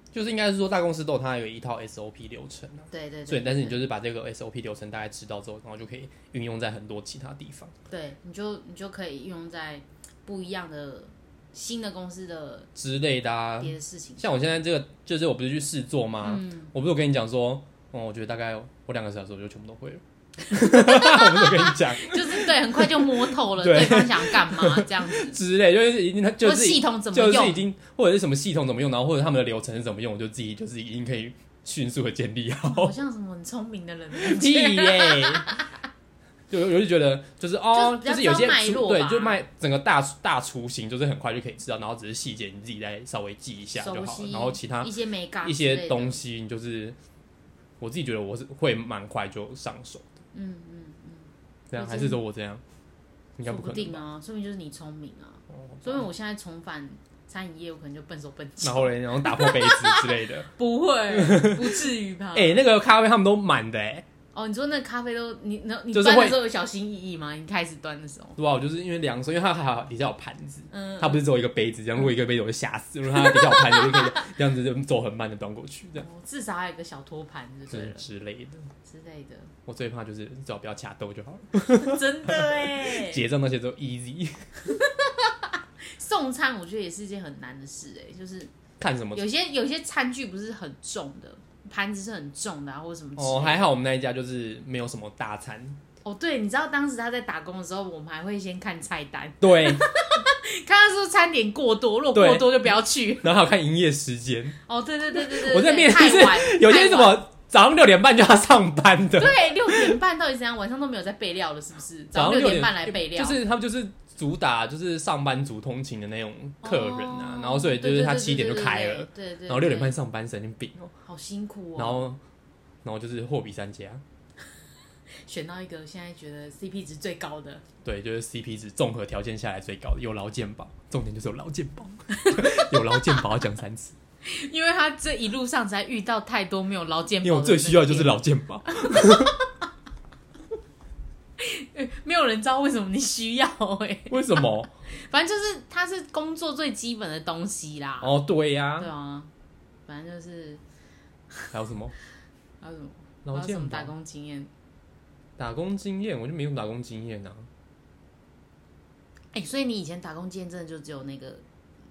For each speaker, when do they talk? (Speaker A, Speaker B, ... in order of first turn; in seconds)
Speaker A: 0.1-7.7, 12.7-33.0, 34.1-35.6, 36.5-47.0, 47.8-50.1, 51.7-52.6, 53.4-54.0, 55.8-56.0, 58.6-60.5, 61.1-64.0, 65.9-66.4, 68.4-76.0, 77.7-78.7, 79.7-84.6, 88.8-89.2, 93.2-95.8, 99.4-99.9, 102.1-104.6, 105.1-110.0, 112.1-120.9, 121.8-122.2, 122.8-124.0, 127.8-133.9, 137.2-139.4, 144.1-144.7, 148.0-148.9, 151.5-151.9, 153.2-153.9, 155.4-157.5
Speaker B: 2.9-3.8, 7.9-12.7, 13.6-14.6, 16.2-16.7, 20.5-25.4, 26.4-27.6, 32.7-35.7, 37.7-39.4, 43.8-46.2, 50.3-52.2, 53.5-62.6, 64.3-68.4, 70.7-71.2, 73.5-74.2, 76.0-78.0, 78.8-79.5, 81.6-83.2, 84.7-88.5, 89.1-93.7, 96.0-103.3, 104.7-107.2, 109.2-113.4, 116.6-120.0, 121.0-122.0, 125.2-127.6, 132.1-133.2, 134.2-139.4, 141.4-148.1, 148.8-149.3, 149.9-150.6, 152.6-154.5, 159.3-161.4